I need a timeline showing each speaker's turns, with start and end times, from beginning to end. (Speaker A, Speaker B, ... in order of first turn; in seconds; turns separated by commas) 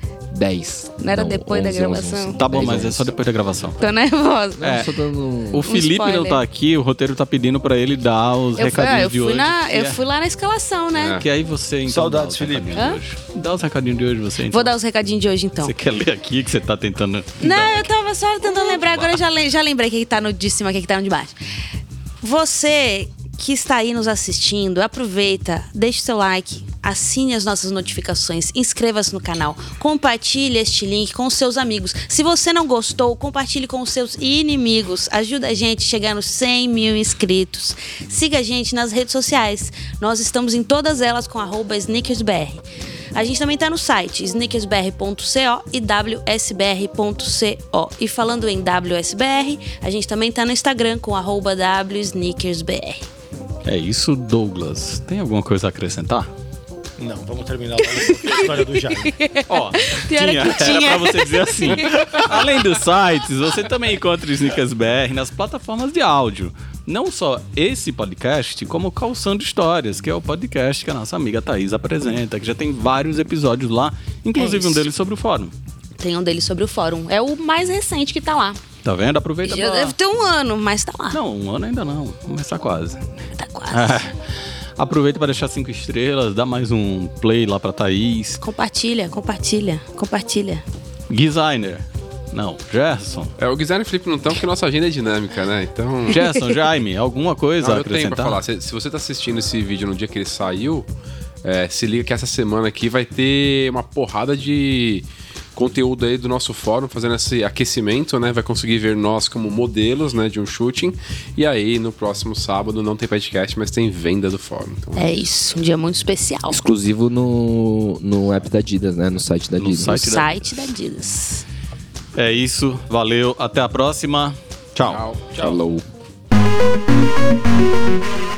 Speaker A: 0.3-3.1, Speaker B: 1.0-2.4, Speaker C: 2.4-3.8, Speaker B: 3.8-4.6, Speaker A: 4.6-5.7, Speaker C: 4.6-4.8, Speaker C: 5.5-10.0, Speaker B: 5.6-6.4, Speaker B: 8.6-11.2, Speaker D: 10.9-11.2, Speaker C: 11.0-14.7, Speaker E: 11.8-12.9, Speaker B: 12.7-13.0, Speaker B: 14.5-15.7, Speaker C: 15.6-17.9, Speaker B: 17.4-21.4, Speaker B: 22.2-42.6, Speaker B: 43.1-53.0, Speaker C: 53.6-56.3, Speaker E: 57.0-59.2, Speaker B: 58.2-62.3, Speaker C: 59.5-75.5, Speaker B: 74.3-74.8, Speaker B: 76.0-78.6, Speaker C: 78.8-79.9, Speaker B: 79.4-81.2, Speaker C: 81.1-83.1, Speaker B: 83.3-84.0, Speaker C: 83.7-84.2, Speaker C: 84.8-88.4, Speaker B: 88.4-90.6, Speaker C: 91.1-93.3, Speaker D: 93.4-96.2, Speaker C: 96.1-98.4, Speaker D: 97.6-100.8, Speaker D: 101.4-115.2, Speaker B: 115.0-116.6, Speaker A: 116.5-120.1, Speaker C: 119.6-120.7, Speaker B: 120.0-121.4, Speaker C: 122.2-125.0, Speaker D: 124.8-125.4, Speaker A: 125.3-125.8